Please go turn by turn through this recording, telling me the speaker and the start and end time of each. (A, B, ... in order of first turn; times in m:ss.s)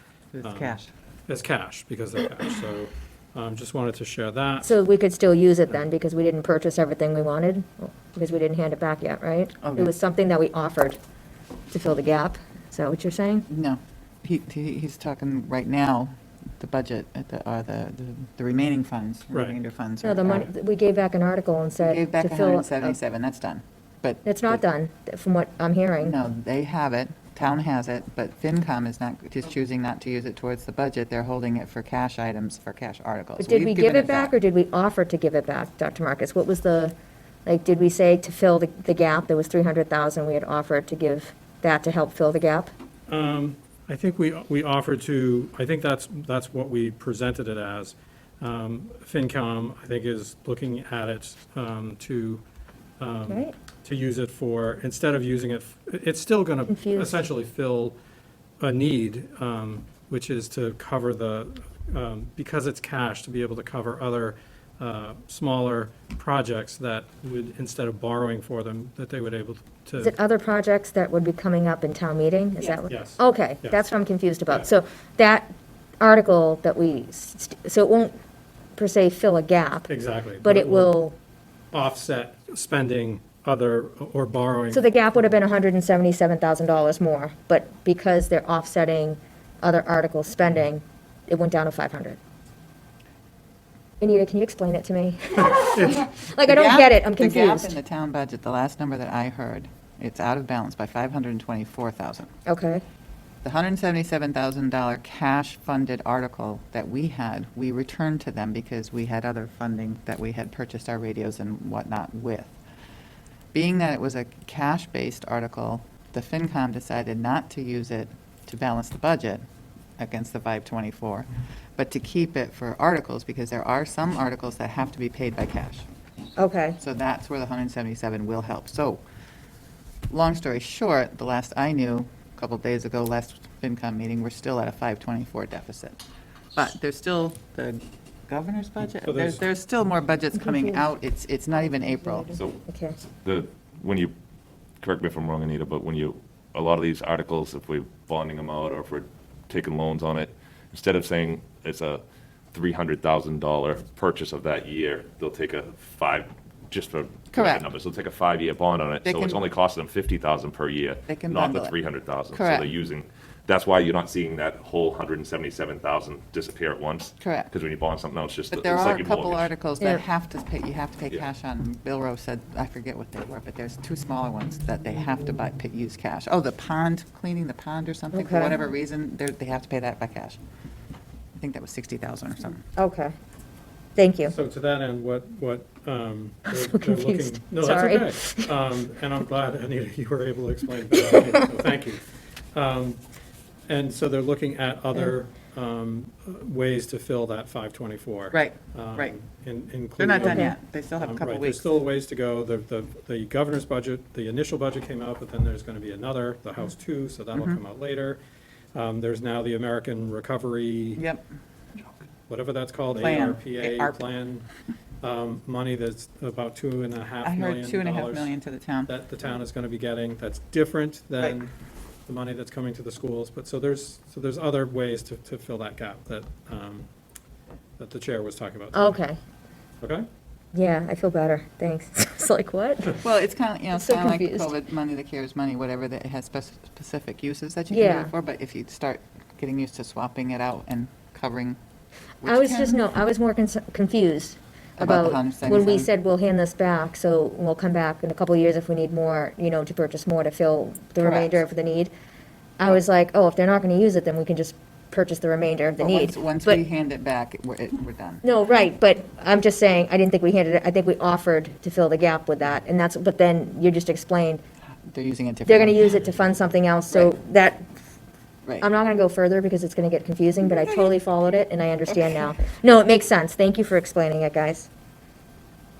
0:00.3-0:00.9 A
0:00.4-0:04.7 B
0:04.6-0:11.0 C
0:09.6-0:09.9 A
0:11.7-0:13.5 C
0:13.5-0:20.5 A
0:20.0-0:22.9 C
0:21.8-0:24.6 A
0:24.2-0:26.2 C
0:26.0-0:34.3 A
0:33.4-0:36.9 C
0:37.4-0:42.7 C
0:43.1-0:52.4 B
0:53.0-0:58.0 B
0:53.3-0:53.5 C
0:56.7-0:57.2 C
0:58.6-1:10.1 B
1:10.0-1:18.2 C
1:12.9-1:13.8 B
1:18.8-1:21.2 C
1:19.9-1:21.0 B
1:21.7-1:24.8 B
1:24.7-1:32.2 C
1:34.0-1:37.8 C
1:35.9-1:42.3 A
1:42.4-1:42.8 C
1:43.4-1:52.5 A
1:53.5-1:59.4 A
2:00.0-2:05.8 A
2:06.4-2:06.8 C
2:06.8-2:09.0 A
2:10.1-2:16.0 A
2:16.5-2:22.3 A
2:18.8-2:19.4 B
2:20.4-2:20.8 C
2:21.6-2:23.0 C
2:23.2-2:24.1 D
2:24.8-2:32.0 D
2:32.5-2:49.5 D
2:37.3-2:37.6 A
2:39.0-2:39.4 A
2:41.1-2:41.7 A
2:42.3-2:42.7 A
2:47.2-2:47.5 A
2:48.5-3:00.4 A
2:58.1-2:58.5 C
3:01.4-3:02.6 A
3:02.8-3:03.1 C
3:04.0-3:04.3 C
3:04.2-3:13.0 B
3:06.7-3:08.5 C
3:13.7-3:28.2 B
3:18.3-3:19.1 A
3:20.0-3:21.7 A
3:20.2-3:20.5 C
3:27.3-3:27.6 A
3:28.7-3:31.0 B
3:31.0-3:31.2 A
3:32.3-3:34.5 B
3:33.0-3:34.0 A
3:35.0-3:38.3 B
3:37.2-3:38.9 A
3:38.8-3:41.5 B
3:42.0-3:46.9 B
3:47.8-3:49.0 B
3:48.7-3:49.2 C
3:49.8-3:50.0 B
3:50.5-3:53.0 C
3:53.0-4:01.6 A
3:53.7-3:54.6 C
3:57.7-3:58.1 C
4:02.2-4:02.8 A
4:02.2-4:11.9 C
4:04.8-4:05.9 A
4:11.0-4:11.4 A
4:12.6-4:16.6 C
4:15.8-4:18.2 A
4:18.2-4:24.4 C
4:24.9-4:26.0 A
4:25.4-4:27.7 C
4:28.6-4:34.7 C
4:30.4-4:30.9 A